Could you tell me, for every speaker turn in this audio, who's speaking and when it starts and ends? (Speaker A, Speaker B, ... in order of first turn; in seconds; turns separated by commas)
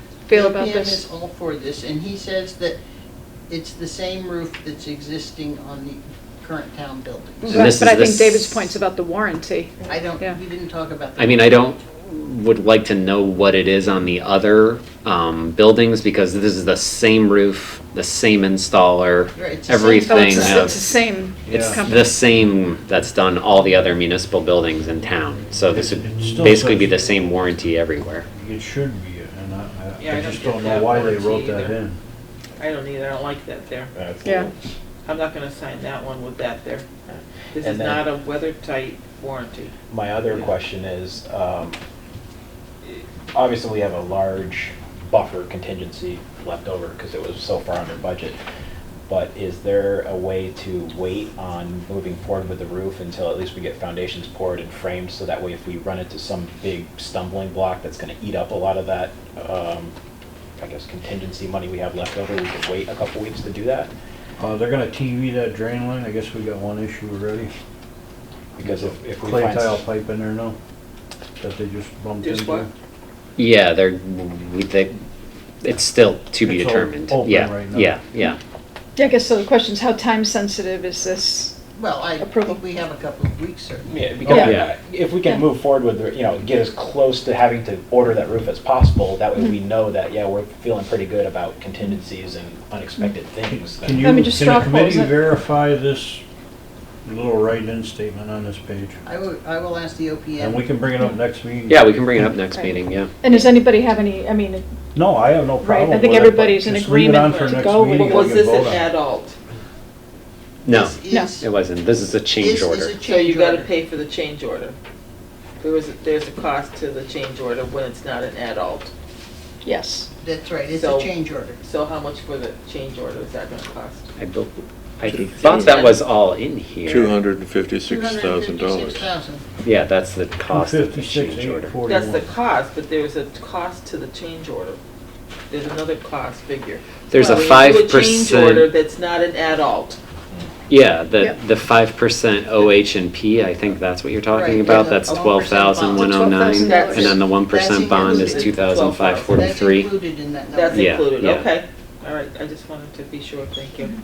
Speaker A: 0.3-1.0, Speaker B: 0.3-2.8, Speaker B: 3.5-7.7, Speaker A: 7.4-10.4, Speaker C: 7.5-8.7, Speaker B: 9.9-11.6, Speaker C: 11.2-20.9, Speaker B: 19.4-20.7, Speaker A: 20.0-22.1, Speaker D: 21.5-21.8, Speaker C: 21.5-28.3, Speaker D: 25.8-27.1, Speaker D: 28.3-32.0, Speaker E: 30.0-31.8, Speaker E: 32.6-33.9, Speaker F: 33.9-34.5, Speaker E: 35.0-36.9, Speaker F: 37.1-38.0, Speaker E: 37.5-39.7, Speaker F: 39.9-41.8, Speaker F: 42.9-48.4, Speaker F: 49.1-59.9, Speaker F: 60.6-63.9, Speaker D: 64.4-67.5, Speaker F: 68.6-69.8, Speaker D: 68.6-70.6, Speaker D: 71.4-72.7, Speaker E: 72.2-72.7, Speaker C: 73.4-74.9, Speaker C: 75.6-78.4, Speaker D: 76.4-78.0, Speaker A: 79.0-81.6, Speaker B: 81.7-83.9, Speaker A: 82.2-82.6, Speaker F: 83.9-94.3, Speaker C: 84.5-84.7, Speaker D: 93.5-96.2, Speaker A: 94.0-95.2, Speaker D: 97.0-99.0, Speaker B: 99.0-100.7, Speaker D: 100.4-102.0, Speaker C: 101.7-103.1, Speaker A: 102.6-104.6, Speaker E: 103.3-103.5, Speaker D: 105.0-108.8, Speaker A: 105.6-108.3, Speaker E: 107.3-109.4, Speaker C: 110.6-113.0, Speaker B: 110.7-111.5, Speaker B: 112.4-113.7, Speaker E: 113.0-114.8, Speaker E: 115.6-118.9, Speaker A: 119.6-120.1, Speaker B: 120.2-121.6, Speaker E: 120.7-121.1, Speaker E: 121.6-124.1, Speaker C: 124.2-127.2, Speaker G: 125.1-125.6, Speaker E: 125.4-126.0, Speaker G: 126.9-129.2, Speaker B: 127.8-129.4, Speaker C: 129.7-131.8, Speaker D: 130.5-132.3, Speaker E: 131.9-134.8, Speaker E: 135.5-140.0, Speaker C: 137.1-138.7, Speaker C: 140.7-149.9, Speaker B: 144.3-146.2, Speaker A: 146.0-147.2, Speaker E: 146.6-147.0, Speaker B: 146.8-148.5, Speaker E: 148.2-149.4, Speaker B: 149.3-151.0, Speaker E: 150.5-153.9, Speaker C: 150.7-151.5